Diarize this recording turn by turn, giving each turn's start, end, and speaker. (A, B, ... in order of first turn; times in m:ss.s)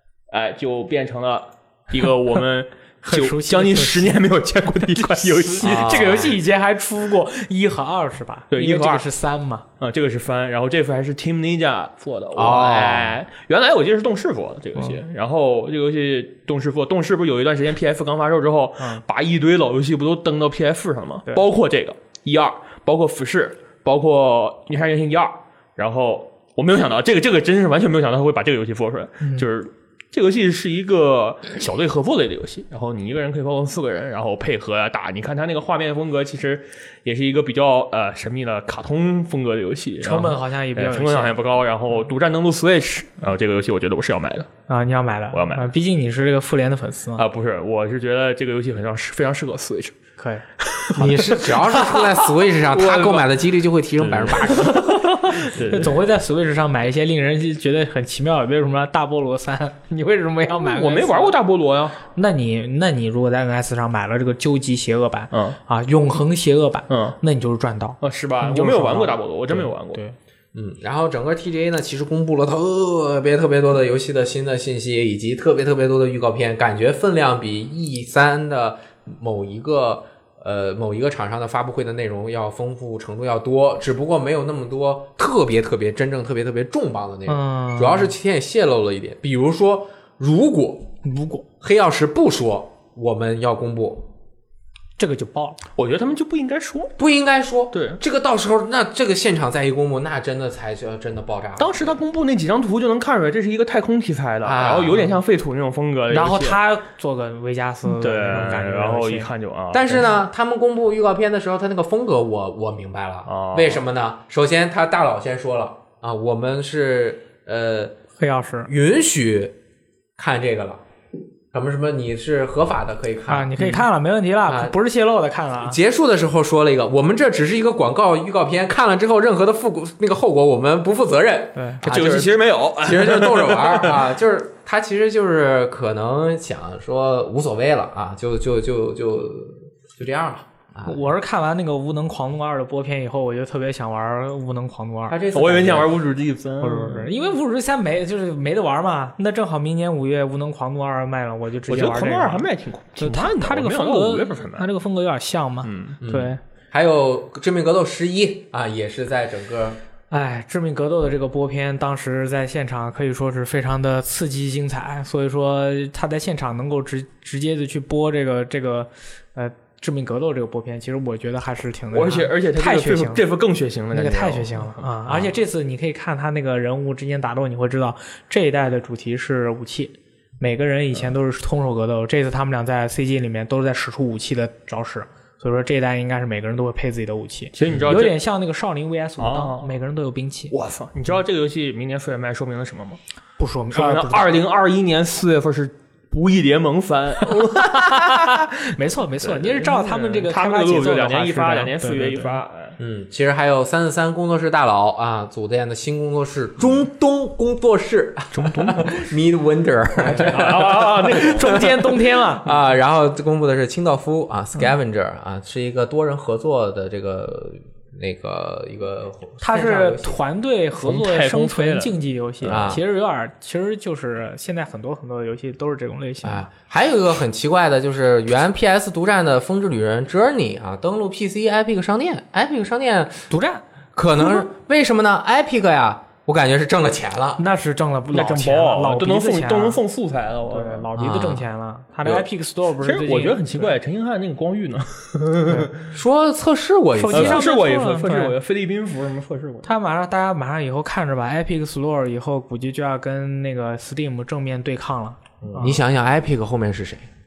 0:00.3-0:06.2 A
0:03.0-0:04.2 B
0:04.9-0:09.6 B
0:05.6-0:06.4 C
0:08.5-0:09.0 A
0:09.8-0:44.5 A
0:12.3-0:13.2 C
0:29.2-0:29.5 B
0:40.0-0:41.4 B
0:44.7-0:47.2 B
0:45.3-0:45.7 A
0:47.2-0:50.0 A
0:50.2-0:50.4 B
0:50.6-0:53.3 A
0:51.0-0:54.8 C
0:54.0-0:56.0 A
0:54.7-1:01.3 B
1:00.5-1:02.0 A
1:02.1-1:10.2 B
1:05.3-1:05.6 A
1:06.9-1:07.2 A
1:08.0-1:10.0 A
1:10.5-1:30.9 C
1:27.3-1:28.1 B
1:31.0-1:31.4 B
1:31.6-1:34.0 C
1:35.0-1:35.6 B
1:35.8-1:36.9 A
1:37.0-1:42.0 C
1:37.7-1:38.0 A
1:41.6-1:46.6 A
1:44.4-1:45.1 C
1:46.1-1:49.3 B
1:47.8-1:50.1 A
1:49.7-1:58.0 C
1:53.3-1:53.8 A
1:58.2-1:58.7 B
1:58.7-1:59.6 C
2:00.2-2:00.8 C
2:01.5-2:03.6 C
2:03.3-2:05.8 B
2:04.5-2:04.7 C
2:05.6-2:21.0 C
2:11.6-2:11.8 B
2:11.8-2:14.1 A
2:20.8-2:25.2 B
2:25.1-2:26.0 C
2:25.3-2:27.2 A
2:26.6-2:32.5 B
2:31.7-2:34.7 A
2:33.0-2:36.4 B
2:35.6-2:36.0 A
2:36.0-2:39.8 C
2:40.1-2:53.2 B
2:51.9-2:54.8 A
2:53.9-3:10.5 B
3:07.5-3:08.2 A
3:09.2-3:09.7 A
3:10.5-3:13.0 A
3:13.4-3:14.4 B
3:13.7-3:18.4 A
3:17.3-3:22.4 B
3:19.2-3:22.8 A
3:22.8-3:31.9 C
3:28.3-3:29.0 A
3:30.1-3:32.6 B
3:30.1-3:31.7 A
3:32.4-3:40.2 C
3:39.4-3:46.5 B
3:40.8-3:42.8 A
3:42.4-3:42.8 C
3:46.2-3:53.2 C
3:53.3-3:53.6 B
3:53.9-3:57.4 C
3:57.4-3:59.8 B
3:58.1-4:00.9 A
4:00.5-4:03.7 B
4:01.0-4:01.4 C
4:02.8-4:05.8 A
4:05.9-4:07.4 C
4:07.0-4:08.3 B
4:07.1-4:09.7 A
4:09.6-4:15.8 B
4:15.4-4:15.7 A
4:15.6-4:17.0 C